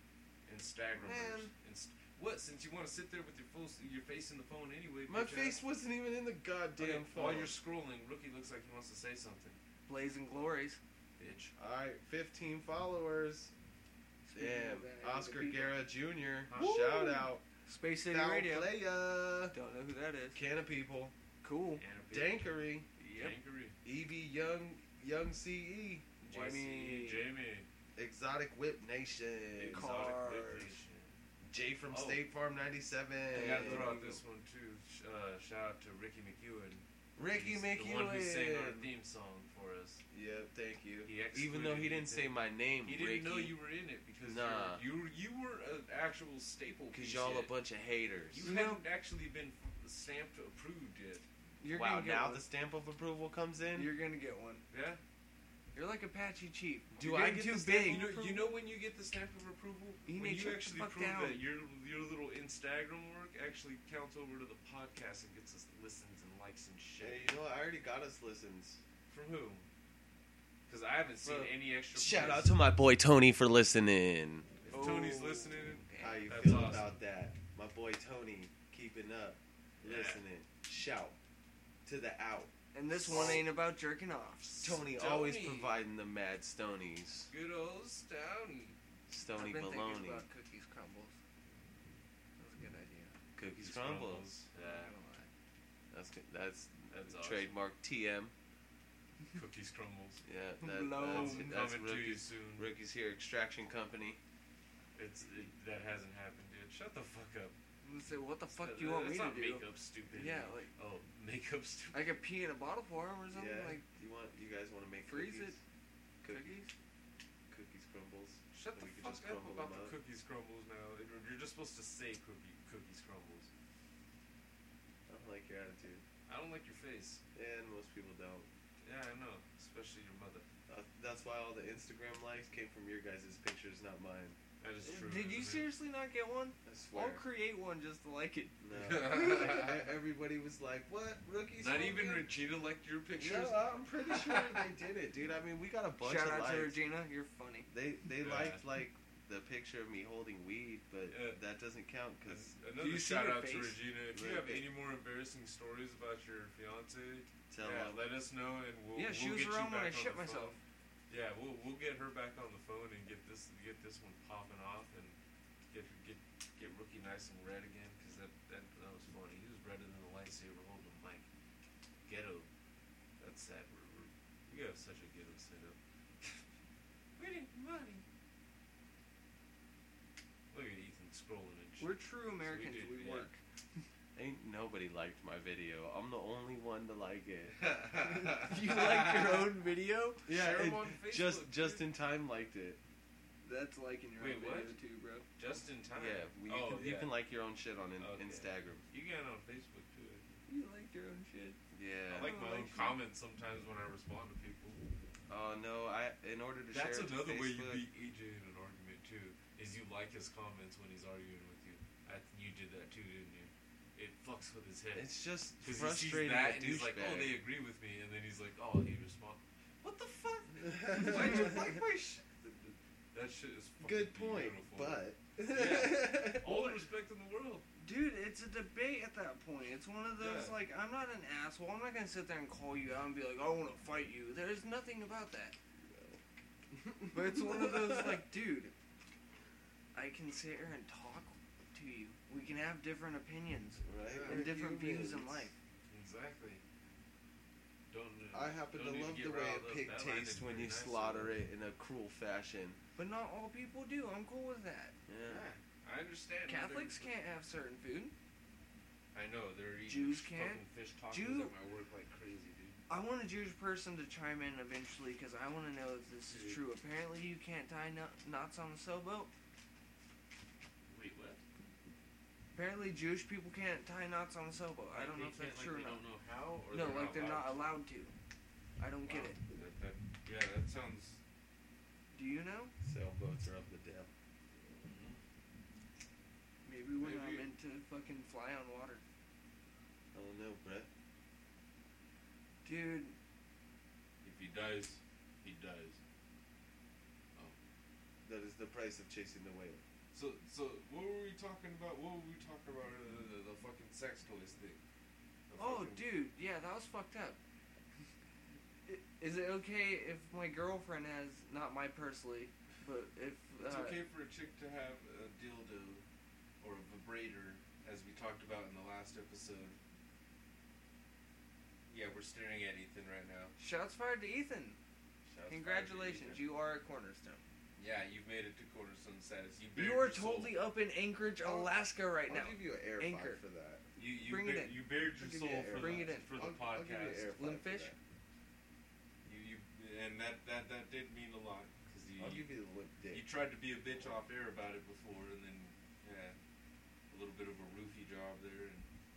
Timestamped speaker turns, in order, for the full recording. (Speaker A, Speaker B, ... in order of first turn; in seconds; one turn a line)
Speaker A: 0.5-5.6
Speaker B: 1.0-1.5
Speaker B: 5.1-7.5
Speaker A: 6.8-9.6
Speaker C: 9.9-10.8
Speaker A: 11.2-11.5
Speaker B: 11.6-13.5
Speaker C: 14.2-15.8
Speaker B: 14.3-17.4
Speaker A: 16.5-16.9
Speaker C: 16.5-18.8
Speaker B: 18.1-19.6
Speaker C: 19.5-20.4
Speaker B: 20.3-21.1
Speaker C: 21.4-21.8
Speaker A: 21.8-22.5
Speaker B: 22.1-22.9
Speaker C: 23.0-23.4
Speaker A: 23.1-23.8
Speaker B: 23.8-26.1
Speaker C: 26.2-27.3
Speaker A: 26.3-27.7
Speaker B: 28.0-29.9
Speaker A: 29.6-31.1
Speaker C: 29.7-30.8
Speaker B: 31.5-34.1
Speaker A: 31.9-32.2
Speaker A: 33.3-40.0
Speaker C: 33.3-34.2
Speaker B: 37.2-38.9
Speaker B: 40.1-43.6
Speaker A: 41.0-47.5
Speaker B: 44.2-44.8
Speaker B: 46.9-48.5
Speaker A: 48.3-51.3
Speaker C: 48.4-48.8
Speaker C: 51.6-52.5
Speaker B: 51.7-53.9
Speaker C: 53.7-54.6
Speaker A: 54.7-55.0
Speaker C: 55.7-58.6
Speaker B: 56.9-58.1
Speaker A: 57.8-67.4
Speaker C: 60.1-61.4
Speaker B: 67.0-68.8
Speaker A: 69.1-69.7
Speaker A: 70.7-72.6
Speaker B: 71.2-74.5
Speaker A: 74.6-77.0
Speaker C: 74.7-76.6
Speaker B: 76.0-81.2
Speaker A: 79.8-80.2
Speaker B: 81.8-83.5
Speaker C: 82.7-84.5
Speaker A: 83.1-83.4
Speaker A: 84.4-85.8
Speaker B: 84.6-87.3
Speaker A: 87.3-88.8
Speaker B: 89.1-90.2
Speaker C: 89.3-91.2
Speaker C: 92.4-93.2
Speaker B: 93.4-94.3
Speaker A: 93.5-94.9
Speaker C: 94.6-95.3
Speaker B: 95.9-98.3
Speaker A: 96.9-97.5
Speaker A: 99.3-100.2
Speaker B: 100.2-104.2
Speaker C: 100.6-101.6
Speaker A: 101.0-102.7
Speaker A: 105.0-107.5
Speaker C: 107.8-110.7
Speaker A: 108.5-112.1
Speaker C: 111.9-113.8
Speaker B: 113.3-115.6
Speaker C: 115.0-115.6
Speaker B: 116.2-116.5
Speaker C: 116.3-116.7
Speaker B: 117.5-120.0
Speaker A: 118.5-123.5
Speaker B: 125.1-126.0
Speaker A: 126.3-127.2
Speaker B: 127.3-128.5
Speaker A: 128.8-130.5
Speaker B: 130.7-134.4
Speaker A: 134.6-135.7
Speaker C: 134.8-139.1
Speaker B: 136.7-137.2
Speaker B: 138.6-142.3
Speaker A: 138.7-139.9
Speaker A: 141.6-144.5
Speaker B: 143.2-146.8
Speaker C: 146.0-147.7
Speaker B: 147.7-152.5
Speaker A: 148.2-148.6
Speaker A: 151.1-151.4
Speaker A: 152.3-160.6
Speaker C: 152.8-153.8
Speaker B: 154.1-154.7
Speaker B: 157.5-158.0
Speaker C: 158.9-160.6
Speaker A: 161.1-165.2
Speaker A: 165.7-171.2
Speaker A: 172.1-172.5
Speaker A: 173.2-176.4
Speaker A: 177.2-178.0
Speaker A: 180.5-183.3
Speaker C: 181.8-183.4
Speaker B: 184.2-187.6
Speaker A: 187.6-189.5
Speaker C: 187.9-190.3
Speaker B: 190.3-192.8
Speaker A: 190.3-191.9
Speaker C: 193.4-195.3
Speaker A: 194.2-194.8
Speaker A: 195.4-197.2
Speaker B: 195.9-198.8
Speaker A: 198.0-200.4
Speaker C: 200.5-201.6
Speaker B: 201.7-202.3
Speaker A: 202.1-204.8
Speaker C: 202.2-203.0
Speaker B: 205.3-207.8
Speaker A: 206.7-227.7
Speaker B: 214.9-217.4
Speaker B: 220.8-221.6
Speaker C: 220.9-221.8
Speaker B: 223.8-226.8
Speaker C: 227.8-235.6
Speaker A: 230.2-230.6
Speaker B: 235.9-238.2
Speaker C: 237.1-238.7
Speaker C: 239.9-245.6
Speaker B: 243.8-245.5
Speaker A: 244.1-244.4
Speaker A: 245.9-246.6
Speaker A: 247.9-251.4
Speaker B: 248.3-252.8
Speaker C: 253.0-254.9
Speaker B: 255.1-255.5
Speaker A: 255.2-257.1
Speaker C: 256.5-258.1
Speaker A: 259.1-262.8
Speaker C: 259.9-261.5
Speaker C: 262.9-269.3
Speaker A: 266.3-266.6
Speaker A: 270.9-271.4
Speaker C: 272.5-276.0
Speaker A: 274.9-277.7
Speaker C: 276.7-278.1
Speaker C: 278.8-279.4
Speaker A: 279.1-281.2
Speaker C: 282.1-282.7
Speaker B: 282.8-284.1
Speaker A: 284.7-285.2
Speaker C: 286.6-289.0
Speaker A: 287.0-287.5
Speaker B: 290.1-290.9
Speaker C: 292.6-293.2
Speaker A: 294.2-296.0
Speaker B: 298.2-299.8
Speaker A: 300.1-304.8
Speaker A: 305.5-306.2
Speaker C: 305.6-307.4
Speaker C: 308.9-314.0
Speaker A: 313.6-316.0
Speaker A: 316.6-319.8
Speaker A: 321.9-323.5
Speaker C: 323.6-324.8
Speaker A: 325.3-326.4
Speaker C: 325.5-327.4
Speaker A: 327.8-330.6
Speaker C: 329.8-333.4
Speaker B: 331.4-333.9
Speaker A: 334.0-337.3
Speaker C: 334.2-336.3
Speaker B: 335.4-338.0
Speaker C: 337.3-337.9
Speaker A: 339.2-342.5
Speaker B: 342.2-343.3
Speaker A: 343.1-346.4
Speaker A: 347.1-348.9